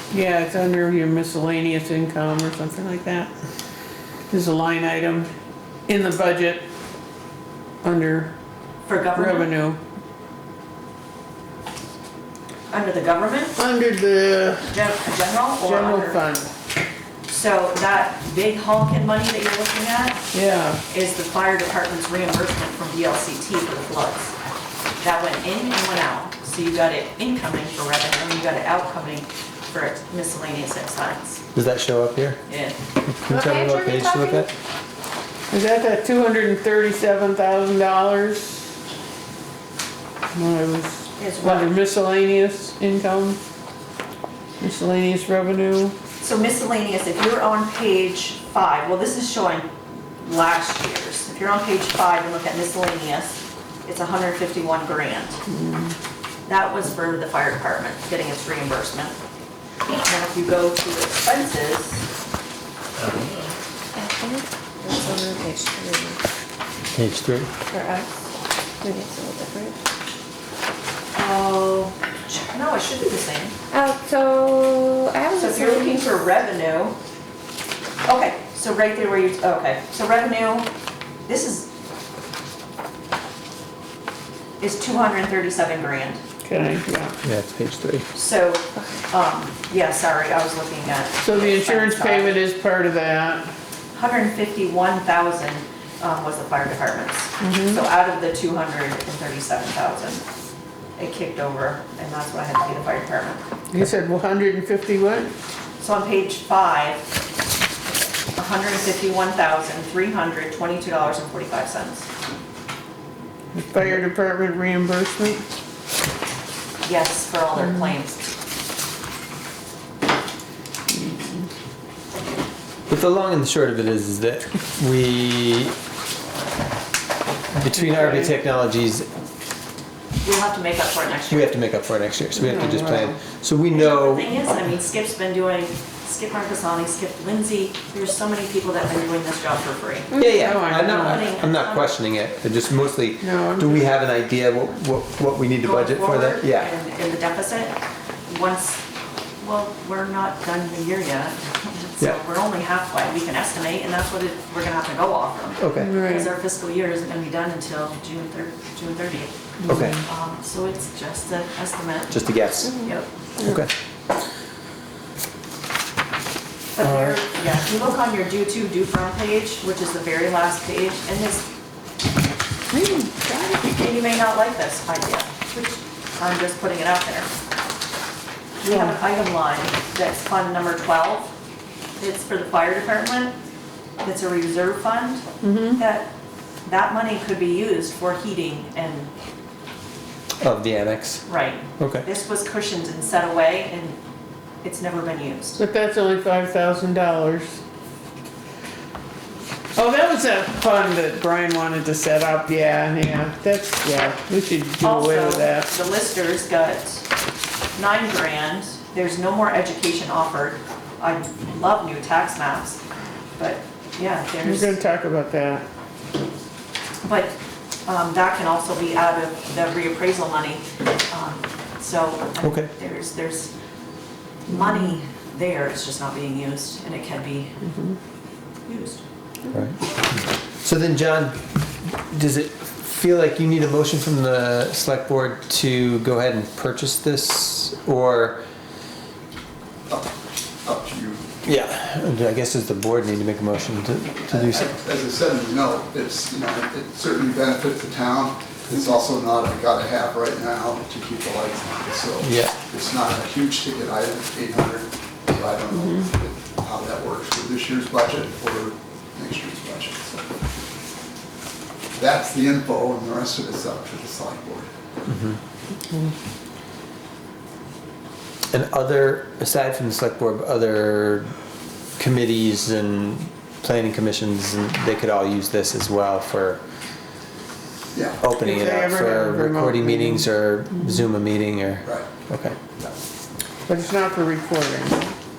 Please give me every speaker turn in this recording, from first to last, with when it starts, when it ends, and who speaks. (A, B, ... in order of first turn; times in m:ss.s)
0:00.1-0:03.3 A
0:04.3-0:05.3 A
0:05.9-0:06.6 A
0:07.8-0:08.3 A
0:08.8-0:09.5 B
0:09.1-0:09.8 A
0:12.7-0:13.6 B
0:13.6-0:14.7 A
0:14.7-0:16.2 B
0:15.6-0:16.5 A
0:17.3-0:20.2 B
0:20.3-0:20.8 A
0:20.9-0:24.3 B
0:25.0-0:31.4 B
0:31.5-0:32.4 C
0:32.5-0:32.8 B
0:33.1-0:34.5 C
0:33.2-0:34.5 D
0:35.5-0:38.6 A
0:40.3-0:43.4 A
0:41.2-0:41.7 B
0:44.6-0:45.9 A
0:46.2-0:49.7 B
0:50.2-0:55.4 B
0:55.5-0:55.9 A
0:56.4-0:59.2 B
1:00.0-1:02.0 B
1:03.0-1:03.4 C
1:03.9-1:06.2 D
1:06.9-1:07.5 C
1:07.7-1:08.1 D
1:08.8-1:09.8 D
1:11.1-1:13.5 B
1:13.7-1:16.1 D
1:15.4-1:17.0 B
1:18.0-1:20.7 B
1:21.3-1:21.7 B
1:24.6-1:26.2 B
1:26.4-1:27.2 A
1:27.2-1:28.1 C
1:28.1-1:32.4 B
1:31.2-1:33.5 A
1:33.9-1:40.2 B
1:37.4-1:37.8 A
1:41.0-1:43.4 B
1:43.7-1:45.3 A
1:45.8-1:47.0 B
1:48.3-1:52.1 B
1:53.5-1:55.4 A
1:56.8-1:58.2 B
1:57.6-1:57.9 A
2:00.9-2:01.4 A
2:02.9-2:05.8 C
2:07.5-2:09.1 C
2:07.7-2:08.3 A
2:10.2-2:11.6 B
2:11.3-2:14.3 C
2:12.3-2:13.3 A
2:13.7-2:22.0 B
2:20.1-2:26.7 C
2:20.2-2:21.3 A
2:23.2-2:24.0 A
2:25.6-2:28.8 B
2:29.4-2:39.3 B
2:35.6-2:36.0 C
2:35.8-2:36.3 A
2:39.6-2:40.0 A
2:39.7-2:40.0 C
2:40.0-2:43.1 B
2:42.1-2:42.7 C
2:42.6-2:42.9 D
2:43.4-2:43.7 C
2:46.7-2:51.4 B
2:46.8-2:47.2 C
2:52.7-2:53.6 A
2:53.6-2:57.3 B
2:58.6-3:01.3 B
2:58.7-2:58.9 A
3:02.0-3:03.3 B
3:04.0-3:06.1 B
3:05.4-3:05.8 A
3:06.6-3:09.1 B
3:10.4-3:11.2 C
3:11.2-3:14.0 B
3:11.8-3:12.0 C
3:14.6-3:15.6 B
3:15.6-3:17.6 A
3:19.7-3:25.7 A
3:24.8-3:27.0 B
3:27.8-3:32.8 B
3:33.4-3:34.8 B
3:34.4-3:35.6 A
3:37.0-3:43.5 B
3:42.4-3:42.7 C
3:44.5-3:47.5 B
3:47.6-3:48.0 A
3:48.6-3:49.0 B
3:49.5-3:49.8 C
3:50.6-3:58.4 C
4:00.6-4:01.3 E
4:01.4-4:04.7 C
4:04.3-4:20.3 E
4:12.2-4:12.6 C
4:15.7-4:16.0 A
4:22.0-4:24.7 E
4:25.1-4:25.4 C
4:28.5-4:31.3 C
4:32.0-4:36.6 C
4:37.9-4:38.2 E
4:38.2-4:42.6 C
4:38.4-4:40.3 A
4:41.8-4:42.1 E
4:43.7-4:45.1 A